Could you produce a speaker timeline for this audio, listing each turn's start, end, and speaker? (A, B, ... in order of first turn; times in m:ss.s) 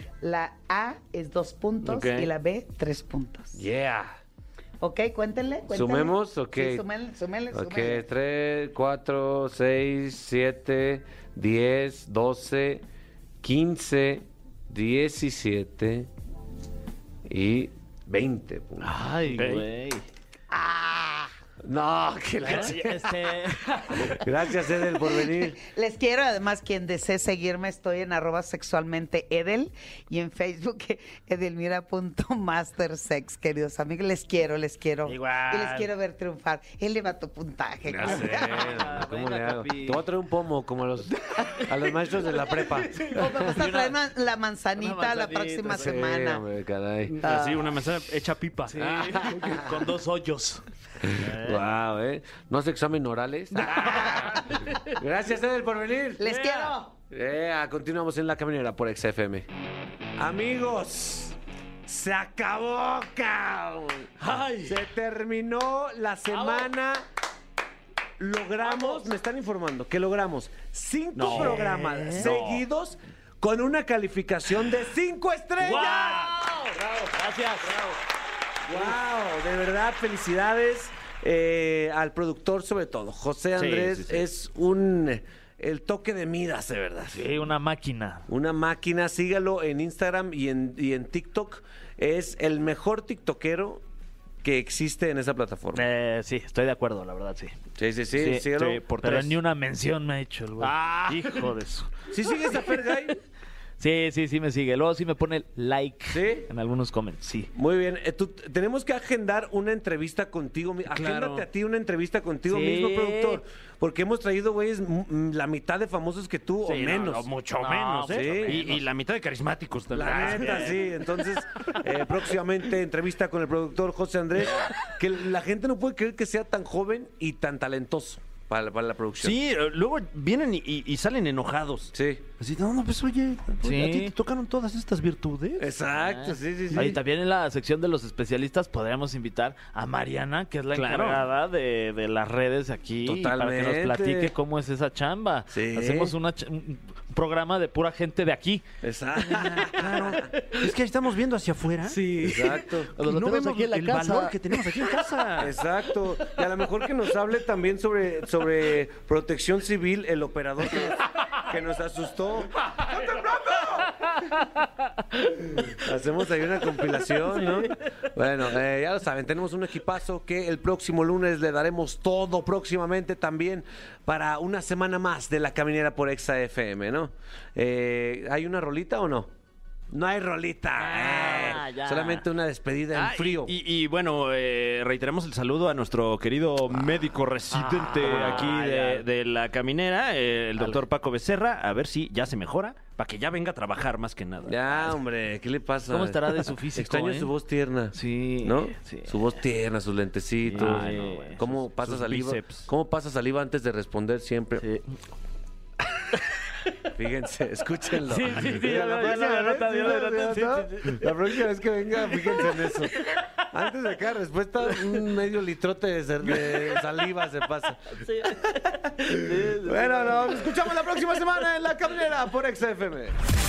0:00.2-0:03.6 A
0:01.8-0:02.3 B
0:03.5-0:04.2 C
0:04.8-0:08.0 A
0:05.7-0:06.8 C
0:07.5-0:12.8 C
0:13.4-0:16.1 C
0:17.2-0:19.0 C
0:18.8-0:20.1 D
0:19.3-0:19.7 B
0:20.5-0:21.3 A
0:21.6-0:25.6 C
0:22.4-0:24.2 D
0:24.9-0:38.6 A
0:35.0-0:35.9 D
0:37.9-0:43.4 C
0:38.0-0:40.0 D
0:42.4-0:44.0 D
0:43.1-0:46.4 A
0:44.7-0:46.0 D
0:45.7-0:47.3 C
0:47.2-0:49.3 B
0:47.2-0:47.7 A
0:48.7-0:50.6 D
0:48.8-0:49.8 C
0:51.0-0:56.3 C
0:51.2-0:51.6 D
0:53.8-0:54.5 A
0:56.2-0:56.9 A
0:57.1-0:59.5 C
1:00.2-1:07.0 C
1:04.2-1:04.6 B
1:04.3-1:04.6 D
1:06.4-1:06.6 B
1:08.2-1:16.4 C
1:08.6-1:09.0 B
1:11.2-1:12.6 B
1:11.2-1:12.3 D
1:15.6-1:17.8 D
1:18.6-1:27.3 C
1:23.6-1:24.2 D
1:27.1-1:28.2 D
1:28.3-1:33.8 C
1:34.4-1:35.8 C
1:35.7-1:37.5 D
1:37.8-1:38.8 C
1:38.2-1:41.8 D
1:38.3-1:39.3 B
1:40.6-1:41.8 B
1:42.1-1:43.2 C
1:43.8-1:47.5 D
1:46.1-1:46.5 C
1:47.5-1:57.3 C
1:50.9-1:51.4 B
1:52.4-1:53.4 D
1:56.6-2:01.2 B
1:57.6-1:58.8 D
1:58.1-1:58.7 C
1:59.9-2:09.4 C
2:00.2-2:00.7 D
2:09.2-2:15.7 B
2:11.9-2:12.2 C
2:13.6-2:14.1 D
2:15.6-2:17.0 C
2:16.0-2:28.6 D
2:20.7-2:21.2 B
2:23.0-2:24.3 C
2:25.5-2:26.1 C
2:28.8-2:30.3 C
2:29.2-2:30.6 D
2:29.7-2:35.6 B
2:31.9-2:35.0 D
2:32.2-2:32.9 C
2:35.4-2:44.0 C
2:45.4-2:59.3 C
2:59.9-3:03.5 C
3:00.8-3:02.2 D
3:02.9-3:14.9 B
3:07.7-3:09.0 D
3:07.9-3:08.6 C
3:14.4-3:24.6 C
3:15.9-3:17.3 D
3:17.9-3:19.2 D
3:20.4-3:21.4 D
3:20.5-3:22.7 B
3:24.6-3:24.9 D
3:26.9-3:38.0 C
3:28.0-3:31.0 D
3:32.1-3:32.7 D
3:38.0-3:40.5 D
3:39.0-3:43.2 C